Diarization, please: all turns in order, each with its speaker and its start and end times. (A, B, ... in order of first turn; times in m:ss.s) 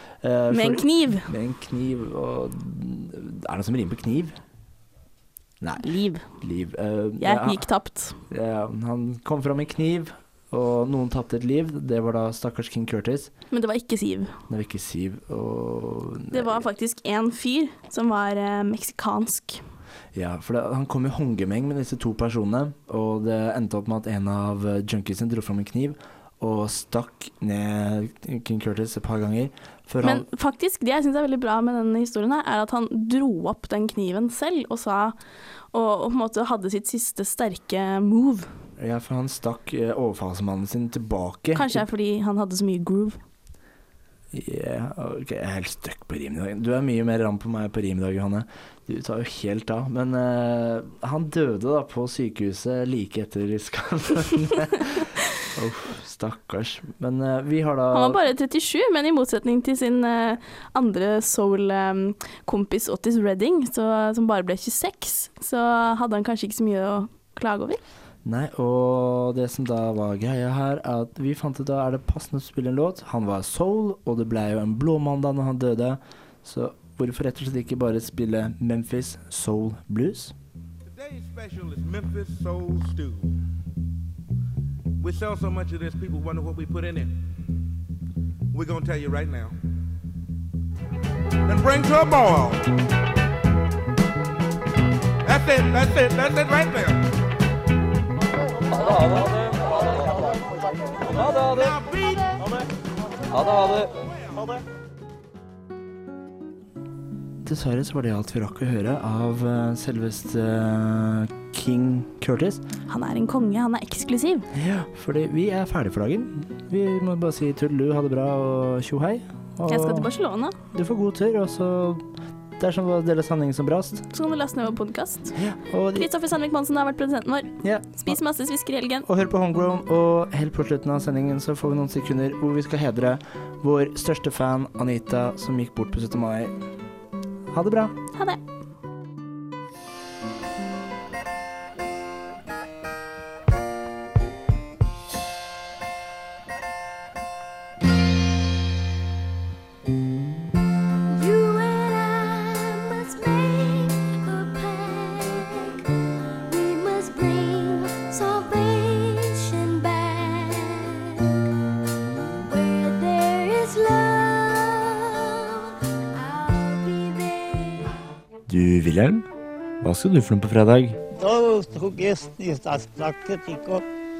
0:00.2-0:04.4 A
0:00.5-0:01.3 B
0:05.6-0:05.9 A
0:05.8-0:06.3 B
0:06.4-0:07.7 A
0:07.2-0:08.2 B
0:08.3-0:13.3 A
0:13.5-0:14.3 B
0:14.5-0:16.7 A
0:16.3-0:19.6 B
0:20.1-0:30.3 A
0:30.0-0:35.2 B
0:35.7-0:38.5 B
0:38.8-0:41.9 A
0:41.5-0:43.2 B
0:44.3-0:58.2 A
0:57.9-1:07.8 B
1:08.2-1:20.4 A
1:20.9-1:23.3 C
1:25.0-1:27.1 C
1:28.5-1:29.6 C
1:31.5-1:32.7 C
1:35.3-1:37.1 C
1:39.0-1:39.2 C
1:41.1-1:42.6 C
1:43.3-1:44.0 C
1:47.4-1:52.6 A
1:52.9-1:54.5 B
1:54.5-2:00.1 A
1:59.7-2:00.6 B
2:00.7-2:02.0 A
2:02.6-2:04.1 A
2:04.1-2:05.4 B
2:05.4-2:06.1 A
2:05.9-2:09.1 B
2:07.6-2:08.2 A
2:09.1-2:16.5 A
2:17.5-2:18.0 A
2:31.1-2:35.8 D
2:36.5-2:41.4 D
2:42.4-2:47.9 D
2:48.5-2:49.3 A
2:49.8-2:51.0 A
2:51.2-2:53.8 E